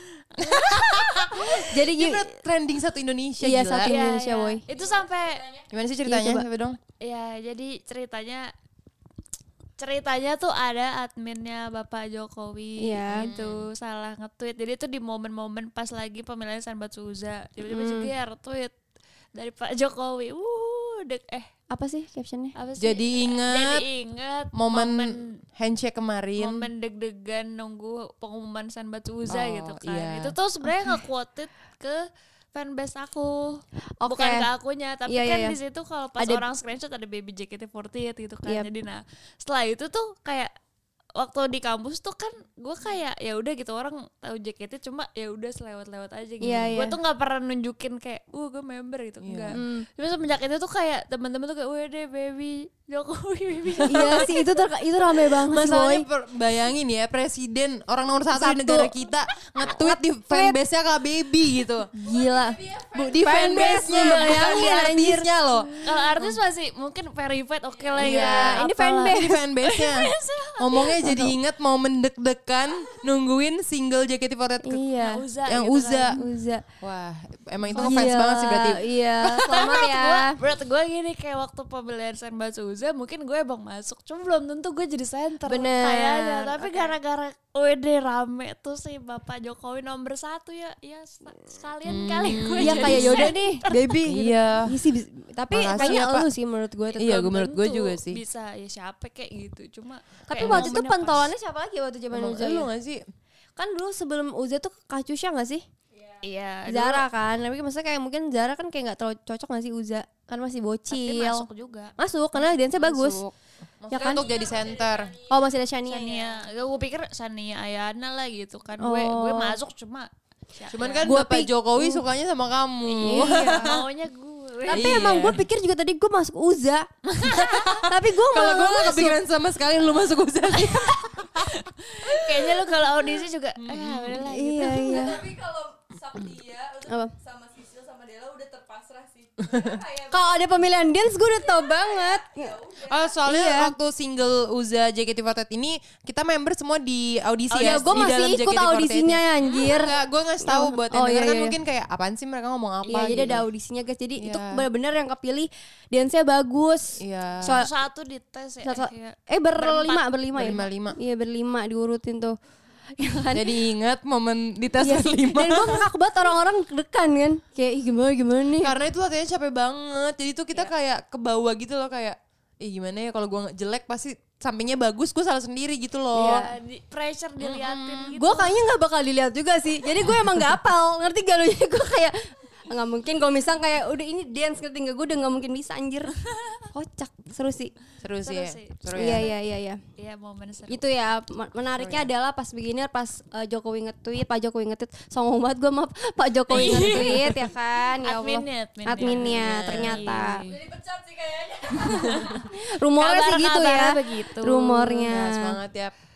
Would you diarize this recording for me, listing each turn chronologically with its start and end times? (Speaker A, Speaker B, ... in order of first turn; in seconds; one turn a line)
Speaker A: 0.3-1.3
Speaker B: 0.4-3.9
Speaker C: 1.4-2.4
Speaker C: 3.4-4.6
Speaker A: 3.8-5.5
Speaker D: 4.7-5.6
Speaker B: 5.7-6.8
Speaker C: 6.0-6.4
Speaker A: 7.0-8.5
Speaker A: 9.8-18.7
Speaker C: 12.8-13.3
Speaker B: 13.1-13.7
Speaker C: 17.7-18.1
Speaker A: 19.3-21.5
Speaker C: 21.7-22.5
Speaker A: 22.5-25.3
Speaker B: 22.8-23.8
Speaker B: 24.5-26.7
Speaker A: 26.4-40.5
Speaker B: 29.3-30.3
Speaker C: 34.0-34.5
Speaker C: 35.1-35.5
Speaker A: 41.1-54.4
Speaker C: 46.4-47.0
Speaker B: 49.2-49.6
Speaker C: 49.5-49.9
Speaker B: 53.8-54.3
Speaker C: 53.8-56.0
Speaker B: 55.3-61.9
Speaker C: 58.3-58.9
Speaker C: 59.6-60.6
Speaker C: 61.9-65.3
Speaker D: 62.0-64.4
Speaker B: 62.9-66.4
Speaker A: 65.8-71.1
Speaker B: 68.0-74.8
Speaker C: 68.0-69.4
Speaker C: 71.0-71.3
Speaker C: 74.6-75.2
Speaker A: 74.9-76.2
Speaker B: 75.4-76.2
Speaker C: 76.1-76.6
Speaker B: 76.8-79.7
Speaker A: 77.7-78.1
Speaker C: 77.8-80.4
Speaker A: 79.5-93.9
Speaker C: 85.5-86.9
Speaker B: 91.8-93.3
Speaker C: 92.6-97.3
Speaker B: 94.0-94.7
Speaker B: 95.5-96.3
Speaker B: 97.0-98.2
Speaker A: 97.0-101.3
Speaker C: 100.3-102.7
Speaker B: 100.4-100.8
Speaker B: 102.1-103.0
Speaker C: 103.6-105.6
Speaker D: 105.9-106.2
Speaker A: 106.2-107.0
Speaker C: 106.7-111.5
Speaker A: 110.9-111.9
Speaker C: 112.0-113.2
Speaker B: 112.7-115.1
Speaker C: 113.9-114.3
Speaker D: 113.9-115.5
Speaker C: 115.3-116.3
Speaker A: 115.9-121.1
Speaker D: 116.1-116.4
Speaker C: 118.8-119.6
Speaker B: 120.7-123.8
Speaker C: 121.0-122.0
Speaker A: 122.9-125.0
Speaker C: 123.0-123.7
Speaker C: 124.7-126.9
Speaker B: 124.7-125.4
Speaker A: 127.1-127.7
Speaker B: 127.2-132.4
Speaker C: 127.8-129.2
Speaker A: 130.6-130.9
Speaker A: 131.4-135.0
Speaker B: 133.6-134.3
Speaker C: 134.3-135.2
Speaker D: 134.6-140.4
Speaker B: 139.5-139.8
Speaker C: 140.1-142.6
Speaker D: 141.2-143.2
Speaker B: 142.8-153.4
Speaker C: 143.2-143.7
Speaker C: 147.5-151.6
Speaker A: 147.5-148.1
Speaker C: 152.9-157.7
Speaker B: 154.2-154.6
Speaker B: 157.0-157.6
Speaker A: 157.4-160.1
Speaker C: 158.6-162.4
Speaker B: 160.3-161.0
Speaker C: 163.0-163.5
Speaker B: 163.3-165.8
Speaker C: 164.8-168.7
Speaker B: 168.6-176.5
Speaker C: 176.1-176.5
Speaker A: 176.2-178.6
Speaker B: 177.4-178.2
Speaker C: 178.1-186.1
Speaker B: 180.1-180.4
Speaker C: 186.7-187.7
Speaker B: 188.0-189.3
Speaker A: 188.2-189.3
Speaker C: 188.9-189.8
Speaker A: 190.0-190.8
Speaker C: 190.7-200.4
Speaker B: 191.8-192.1
Speaker A: 196.5-197.4
Speaker B: 196.6-197.0
Speaker A: 198.0-200.6
Speaker B: 199.0-200.1
Speaker D: 200.5-202.5
Speaker A: 201.8-205.1
Speaker C: 202.5-205.6
Speaker B: 205.0-205.9